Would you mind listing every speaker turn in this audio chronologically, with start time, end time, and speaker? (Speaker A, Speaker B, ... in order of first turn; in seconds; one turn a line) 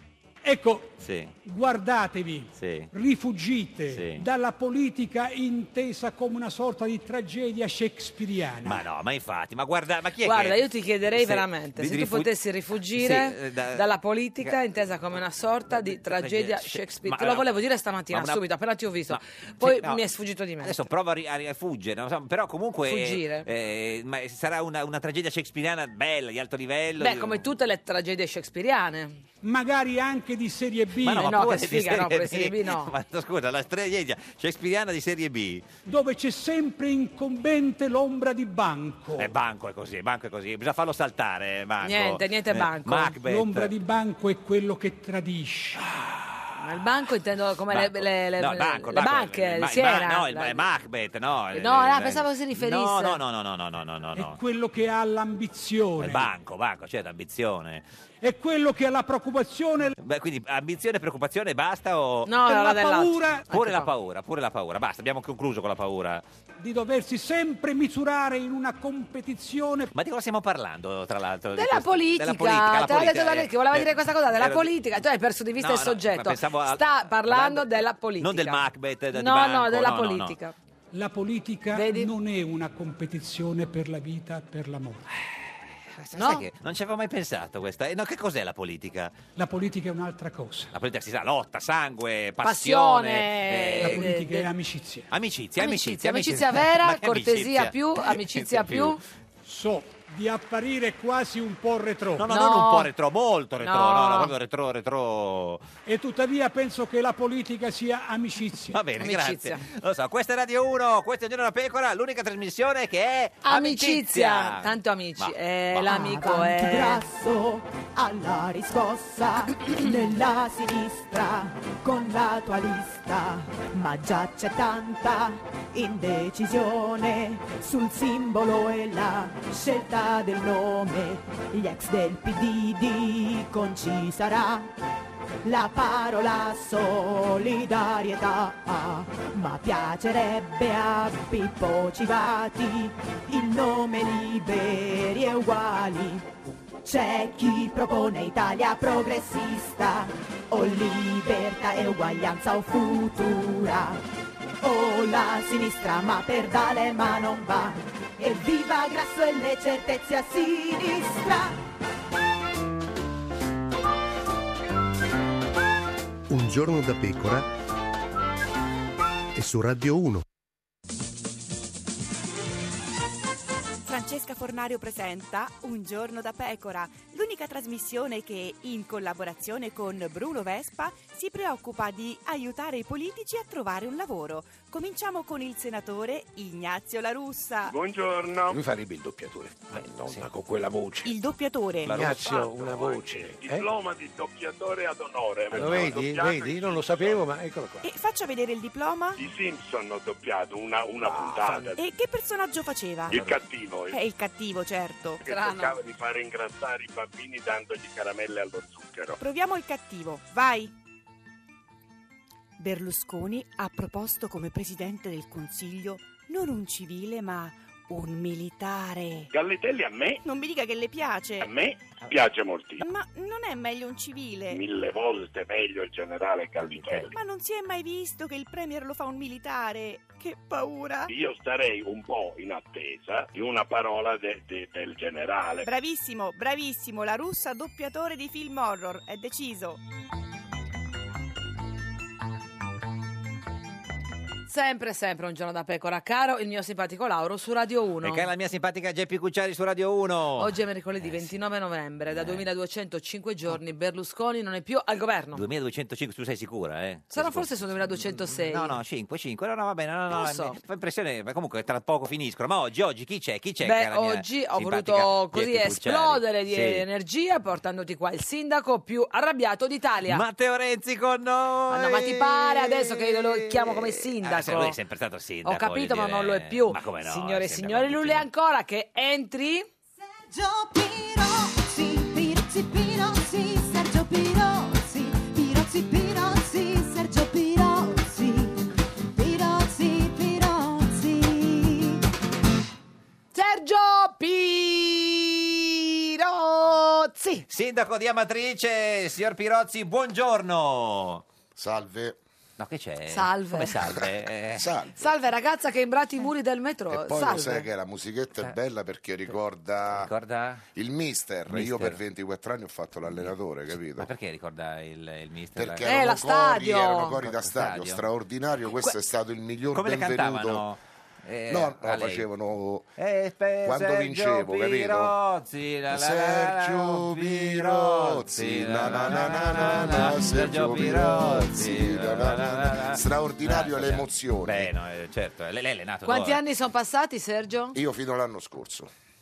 Speaker A: 0.4-8.8
Speaker B: 1.0-1.3
Speaker B: 2.6-2.9
Speaker B: 3.9-4.2
Speaker B: 8.6-10.6
Speaker C: 10.2-20.9
Speaker B: 11.1-12.3
Speaker B: 12.9-13.9
Speaker B: 14.4-14.9
Speaker B: 15.7-18.4
Speaker B: 19.1-20.0
Speaker B: 20.6-27.5
Speaker C: 22.9-23.5
Speaker C: 27.0-29.2
Speaker A: 29.4-31.3
Speaker B: 31.0-35.6
Speaker C: 31.1-32.9
Speaker A: 35.9-39.3
Speaker B: 39.2-43.7
Speaker C: 41.8-43.1
Speaker A: 43.2-45.8
Speaker B: 45.8-46.6
Speaker C: 46.6-50.6
Speaker B: 47.7-54.4
Speaker C: 51.5-53.2
Speaker A: 54.2-56.3
Speaker B: 56.0-57.9
Speaker A: 58.2-60.0
Speaker B: 60.0-62.4
Speaker C: 62.3-63.9
Speaker A: 62.5-63.5
Speaker B: 63.5-66.2
Speaker A: 66.6-69.9
Speaker B: 70.0-74.7
Speaker C: 71.5-80.5
Speaker B: 75.6-80.4
Speaker A: 80.9-85.1
Speaker C: 81.7-82.1
Speaker B: 85.9-89.2
Speaker C: 86.2-86.5
Speaker A: 89.4-90.7
Speaker B: 90.7-94.1
Speaker C: 92.4-94.5
Speaker A: 93.8-95.1
Speaker B: 95.1-99.0
Speaker C: 95.6-99.0
Speaker A: 99.4-102.3
Speaker B: 102.2-105.7
Speaker C: 102.3-102.9
Speaker C: 103.6-104.3
Speaker A: 105.9-108.8
Speaker B: 108.7-115.9
Speaker C: 109.0-109.6
Speaker C: 113.4-117.0
Speaker D: 115.9-134.7
Speaker D: 135.4-146.2
Speaker D: 146.8-154.0
Speaker D: 154.6-161.6
Speaker E: 166.3-167.5
Speaker E: 169.3-170.2
Speaker F: 173.8-187.8
Speaker G: 187.6-188.6
Speaker H: 188.5-191.1
Speaker F: 191.0-192.5
Speaker G: 191.8-197.3
Speaker E: 191.9-193.1
Speaker H: 191.9-193.7
Speaker H: 195.5-197.8
Speaker E: 195.6-196.4
Speaker F: 197.8-199.2
Speaker G: 199.2-202.0
Speaker H: 201.1-201.7
Speaker F: 201.8-203.3
Speaker G: 203.1-204.0
Speaker F: 203.9-205.2
Speaker G: 205.2-209.2
Speaker C: 205.3-205.7
Speaker F: 209.2-210.7
Speaker F: 212.6-219.3
Speaker G: 219.3-220.2
Speaker F: 220.2-221.5
Speaker G: 221.4-222.8
Speaker F: 222.8-224.6
Speaker G: 224.5-227.2
Speaker F: 227.2-231.1
Speaker G: 231.1-235.7
Speaker F: 235.6-239.8
Speaker C: 244.5-248.2
Speaker B: 248.0-251.3
Speaker C: 250.4-255.4
Speaker B: 252.1-252.4
Speaker B: 255.3-266.9
Speaker C: 257.1-258.8
Speaker C: 260.1-260.6
Speaker C: 263.6-270.2
Speaker B: 270.1-278.3
Speaker C: 271.7-274.8
Speaker C: 275.4-279.7
Speaker D: 280.2-292.0
Speaker C: 293.3-297.5
Speaker B: 297.5-301.2
Speaker I: 301.6-302.2
Speaker B: 302.6-304.8
Speaker C: 303.1-303.8
Speaker I: 304.5-305.1
Speaker C: 305.0-307.7
Speaker I: 306.9-310.1
Speaker B: 309.9-310.7
Speaker I: 310.8-314.1
Speaker B: 311.5-312.0
Speaker B: 313.9-315.9
Speaker I: 315.6-320.6
Speaker C: 315.9-317.1
Speaker B: 317.2-318.1
Speaker B: 319.7-322.3
Speaker I: 321.5-322.9
Speaker B: 323.0-336.4
Speaker I: 323.6-325.1
Speaker I: 325.9-334.7
Speaker C: 336.1-337.8
Speaker I: 337.7-338.9